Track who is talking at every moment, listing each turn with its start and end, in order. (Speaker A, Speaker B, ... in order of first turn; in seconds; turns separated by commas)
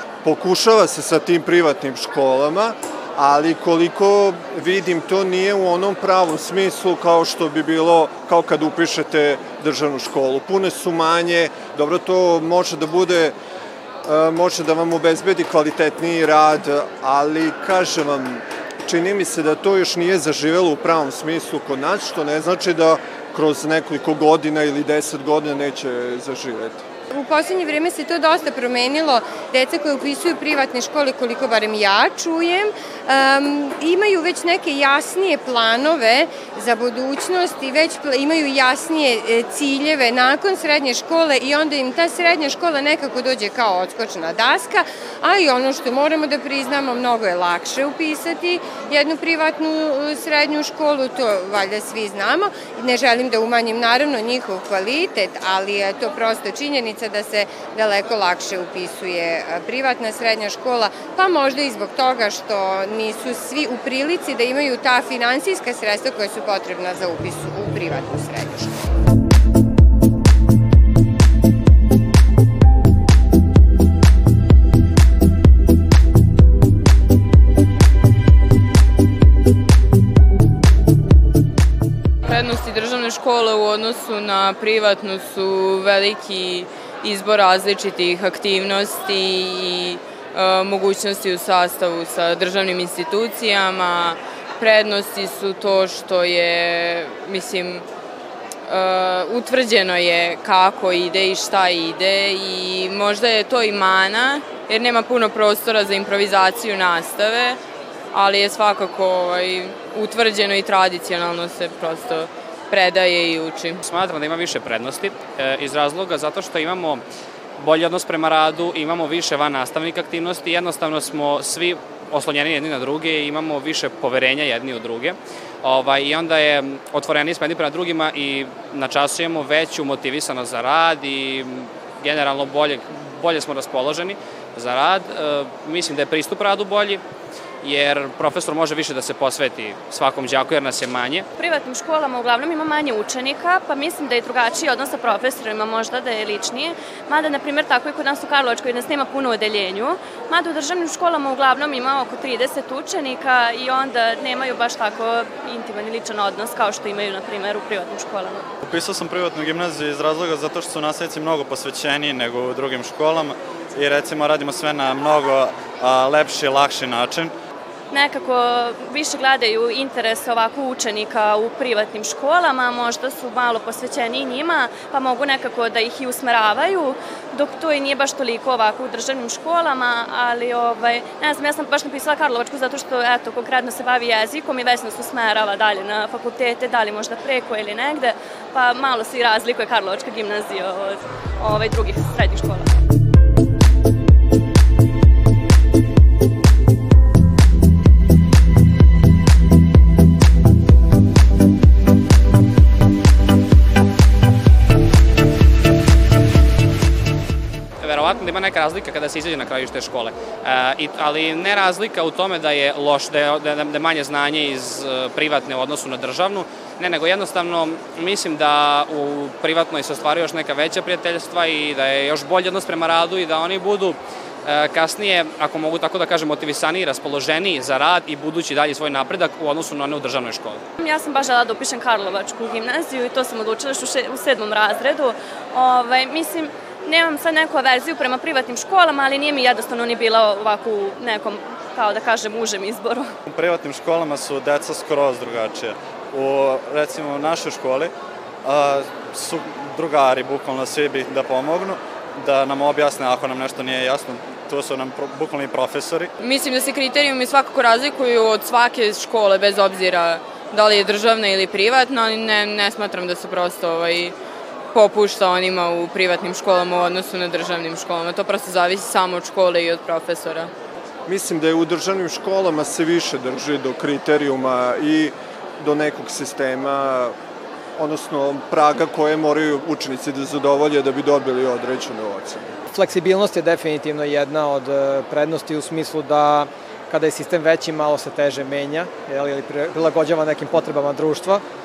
Speaker A: 0.2-13.4, Speaker A: 14.1-26.8, Speaker B: 27.1-68.8, Speaker C: 82.3-97.9, Speaker C: 98.7-107.6, Speaker C: 108.1-113.8, Speaker D: 113.8-117.0, Speaker D: 117.6-137.0, Speaker D: 137.6-141.3, Speaker E: 141.4-158.4, Speaker F: 158.6-167.3, Speaker E: 167.9-192.7, Speaker D: 207.8-230.6, Speaker E: 230.8-243.1, Speaker F: 243.3-247.9, Speaker F: 248.4-256.1, Speaker C: 256.2-264.2, Speaker C: 264.7-270.5, Speaker A: 271.1-277.1, Speaker A: 277.8-282.5, Speaker G: 282.7-291.4